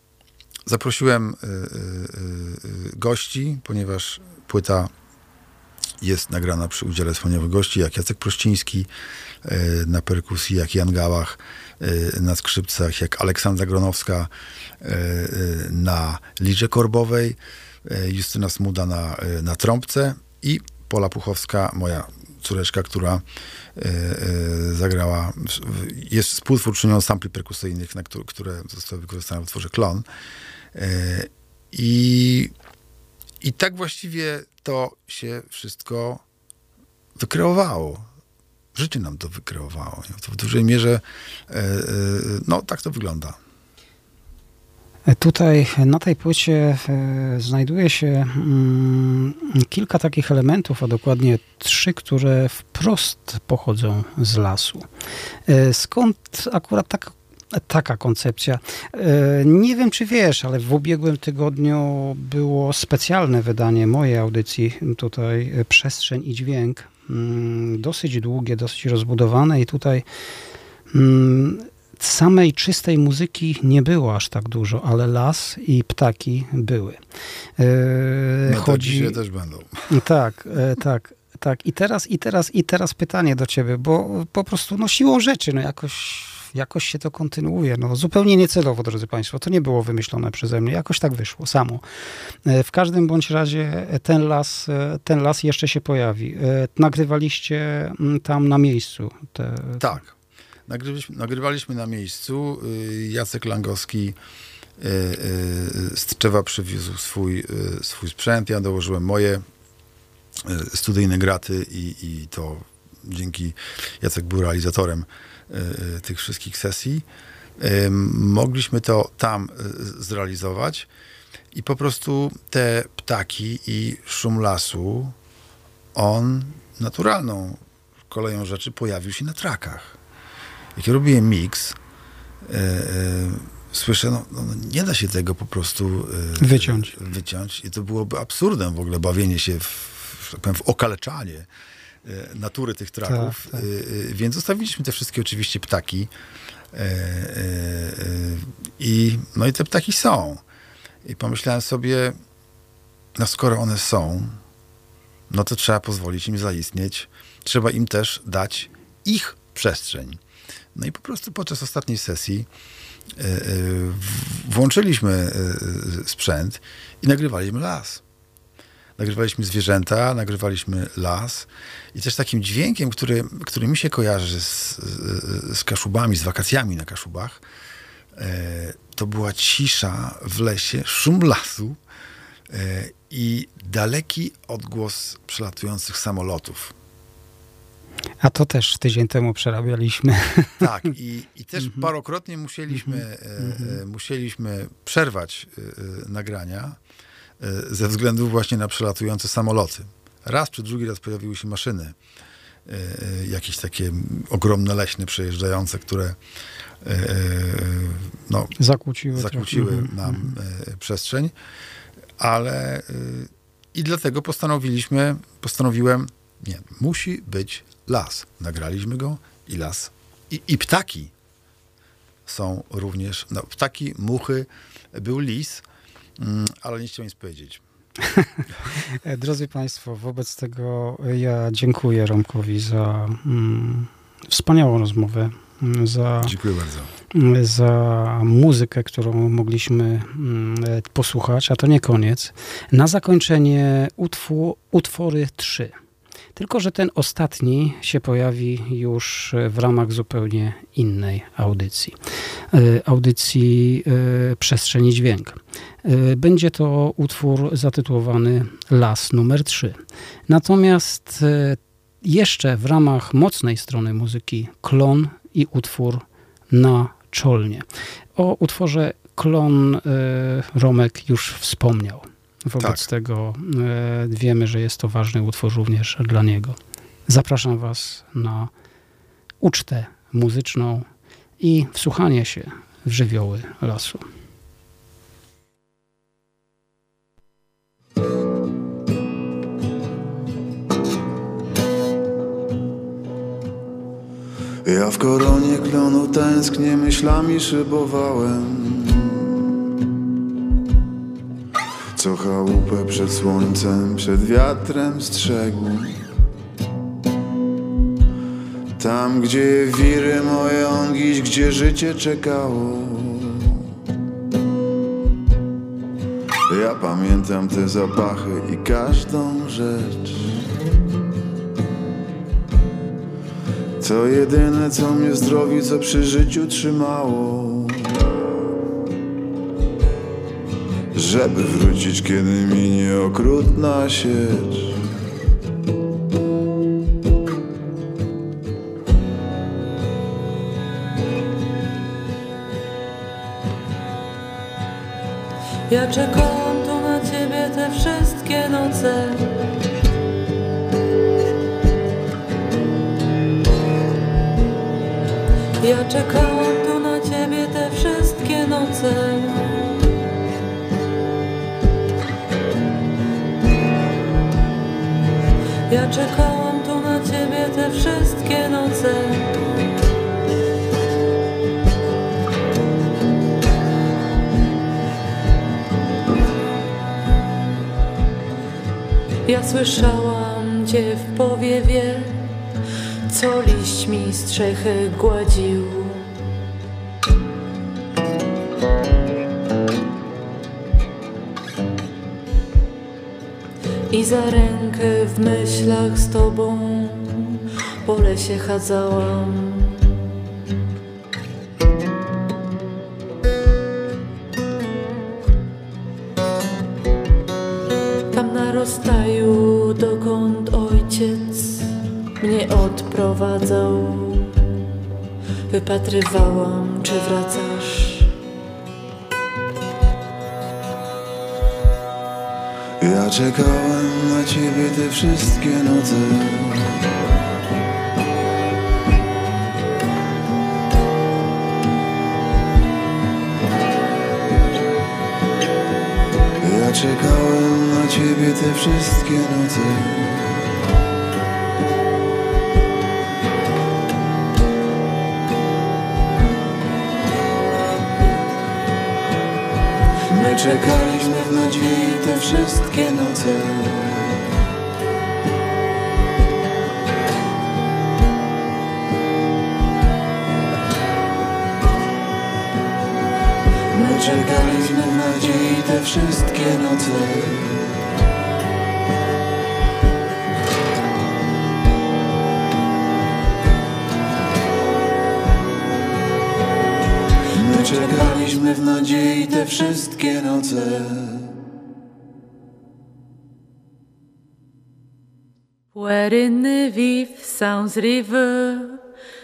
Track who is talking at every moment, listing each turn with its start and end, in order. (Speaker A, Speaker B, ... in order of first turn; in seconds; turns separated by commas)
Speaker A: 0.7-4.9, Speaker A: 6.0-8.9, Speaker A: 9.4-23.2, Speaker A: 23.8-30.1, Speaker A: 30.7-32.5, Speaker A: 33.4-36.2, Speaker A: 37.2-38.1, Speaker A: 38.8-43.4, Speaker B: 45.1-54.9, Speaker B: 55.5-70.0, Speaker B: 70.9-77.0, Speaker B: 77.6-79.2, Speaker A: 78.5-79.7, Speaker B: 79.9-91.8, Speaker B: 92.5-99.9, Speaker A: 99.8-100.1, Speaker A: 100.7-104.2, Speaker A: 104.8-109.5, Speaker A: 110.5-117.1, Speaker A: 117.6-120.9, Speaker A: 121.5-125.2, Speaker A: 126.0-130.0, Speaker A: 130.8-131.8, Speaker A: 132.4-141.5, Speaker B: 136.4-137.0, Speaker A: 142.1-146.1, Speaker B: 143.1-143.7, Speaker A: 146.7-150.4, Speaker A: 151.0-152.2, Speaker A: 153.2-154.4, Speaker A: 155.3-160.2, Speaker A: 160.8-162.5, Speaker A: 163.2-168.0, Speaker A: 169.0-177.4, Speaker A: 178.2-181.8, Speaker A: 182.5-186.7, Speaker B: 188.2-190.7, Speaker A: 190.6-196.8, Speaker B: 191.6-191.9, Speaker B: 192.7-193.8, Speaker A: 197.4-202.0, Speaker A: 202.7-206.2, Speaker A: 206.8-208.5, Speaker B: 208.6-210.3, Speaker A: 209.1-211.3, Speaker A: 212.2-221.1, Speaker A: 222.3-225.6, Speaker A: 226.2-227.6, Speaker B: 228.9-236.3, Speaker A: 236.2-236.9, Speaker B: 237.1-245.8, Speaker B: 246.4-252.0, Speaker B: 252.5-278.5, Speaker A: 272.6-272.9, Speaker B: 279.4-280.9, Speaker B: 281.4-284.1, Speaker A: 294.6-299.3, Speaker A: 302.0-306.0, Speaker A: 308.8-313.6, Speaker A: 316.5-320.4, Speaker A: 323.8-328.1, Speaker A: 330.9-334.8, Speaker C: 345.7-349.3, Speaker C: 355.6-359.7, Speaker C: 365.7-369.3, Speaker C: 379.3-382.4, Speaker C: 383.1-386.1, Speaker C: 393.9-400.1, Speaker C: 408.1-414.6, Speaker C: 415.5-418.1, Speaker A: 422.8-426.8, Speaker A: 436.4-440.4, Speaker A: 450.1-454.3, Speaker A: 463.8-467.6, Speaker C: 463.8-464.9, Speaker A: 477.4-481.3, Speaker C: 485.7-488.8